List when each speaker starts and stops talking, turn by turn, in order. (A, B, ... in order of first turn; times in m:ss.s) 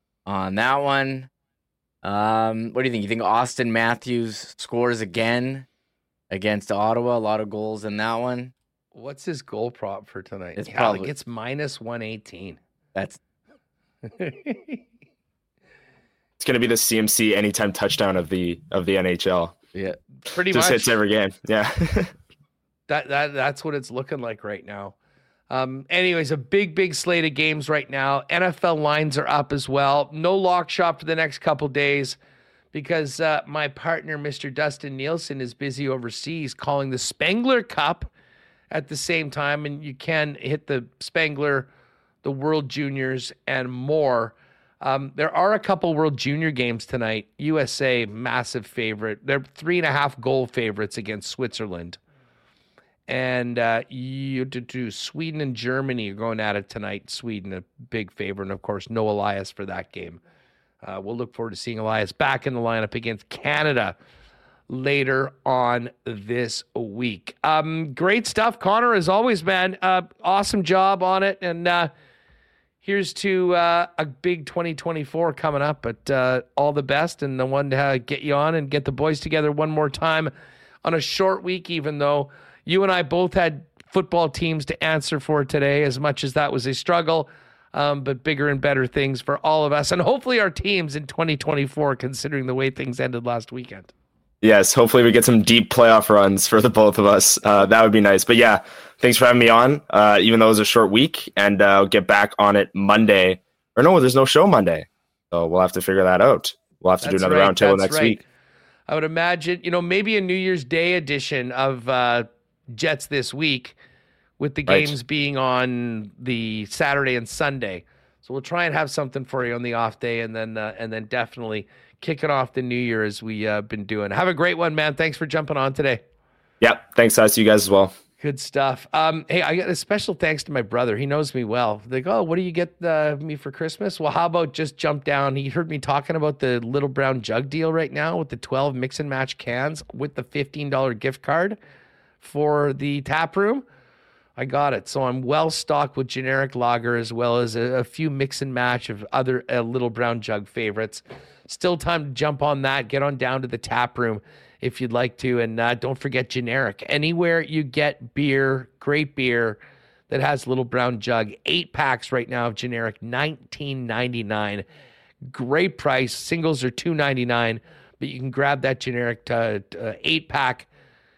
0:00.3-0:01.3 A
0:02.0-0:05.7 A
0:06.3-0:08.5 A
0:08.9-0:12.6 B
0:10.6-0:11.1 A
0:14.1-0:14.8 B
0:16.4-0:19.6 C
0:20.3-0:21.0 B
0:20.5-0:22.1 C
0:22.9-0:25.0 B
0:25.5-0:32.2 B
0:32.7-0:38.1 B
0:38.7-0:41.7 B
0:42.2-0:52.0 B
0:53.1-1:00.2 B
1:00.8-1:04.0 B
1:04.7-1:11.9 B
1:12.8-1:20.3 B
1:20.8-1:33.9 B
1:34.4-1:48.2 C
1:47.0-1:48.2 B
1:48.9-1:53.8 B
1:54.4-2:06.0 B
1:54.7-1:54.9 C
2:06.6-2:07.9 C
2:08.2-2:21.6 B
2:22.2-2:23.7 B
2:24.4-2:44.6 B
2:45.3-2:50.7 B